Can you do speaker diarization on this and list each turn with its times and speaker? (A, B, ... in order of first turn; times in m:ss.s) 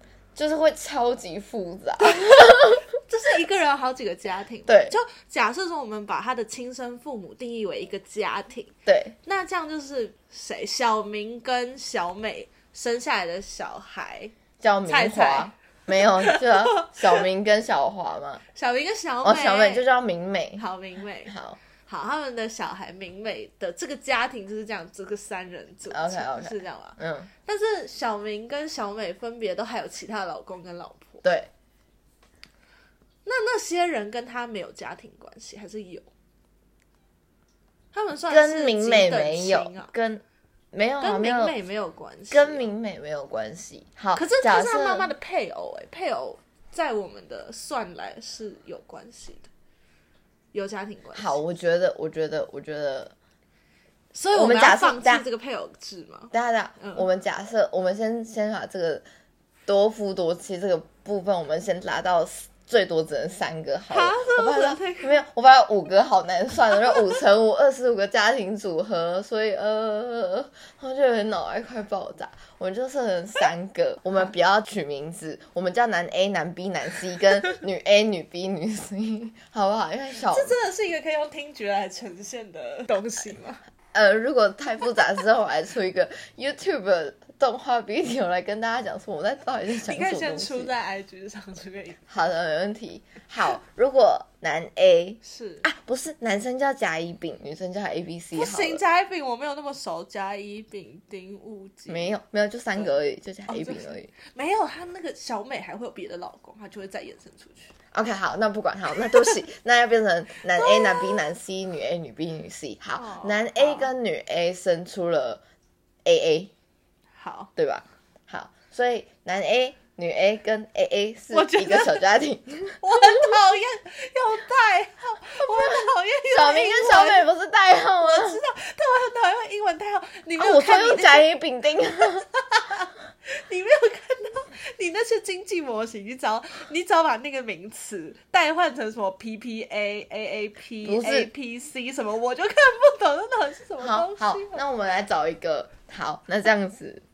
0:00.4-0:02.9 A
0:02.0-0:14.3 B
0:04.7-0:05.0 A
0:08.8-0:09.2 A
0:14.6-0:18.4 A
0:14.9-0:17.2 B
0:18.5-0:19.9 B
0:19.2-0:20.6 A
0:20.6-0:31.2 B
0:21.2-0:21.6 A
0:25.9-0:27.3 A
0:31.2-0:31.5 A
0:33.2-0:36.1 B
0:37.9-0:39.9 B
0:38.3-0:41.5 A
0:41.0-0:42.7 B
0:42.3-0:45.1 A
0:44.1-0:49.5 B
0:50.5-0:51.4 B
0:51.1-0:53.1 A
0:54.1-0:57.0 B
0:54.3-0:55.2 A
0:56.3-0:59.0 A
0:59.7-1:20.6 A
1:03.9-1:05.2 B
1:20.2-1:23.6 B
1:23.9-1:30.7 A
1:29.7-1:32.0 B
1:32.1-1:38.8 A
1:35.2-1:35.6 B
1:38.3-1:42.1 B
1:41.9-1:44.1 A
1:43.5-1:47.7 B
1:47.9-1:55.4 A
1:50.5-1:51.3 B
1:53.0-1:53.9 B
1:56.0-1:56.5 A
1:57.2-1:57.5 B
1:57.6-2:03.3 A
2:01.3-2:02.0 B
2:02.8-2:07.3 B
2:05.4-2:08.4 A
2:08.0-2:11.3 B
2:10.4-2:12.3 A
2:12.0-2:24.6 B
2:20.8-2:21.3 A
2:23.8-2:27.0 A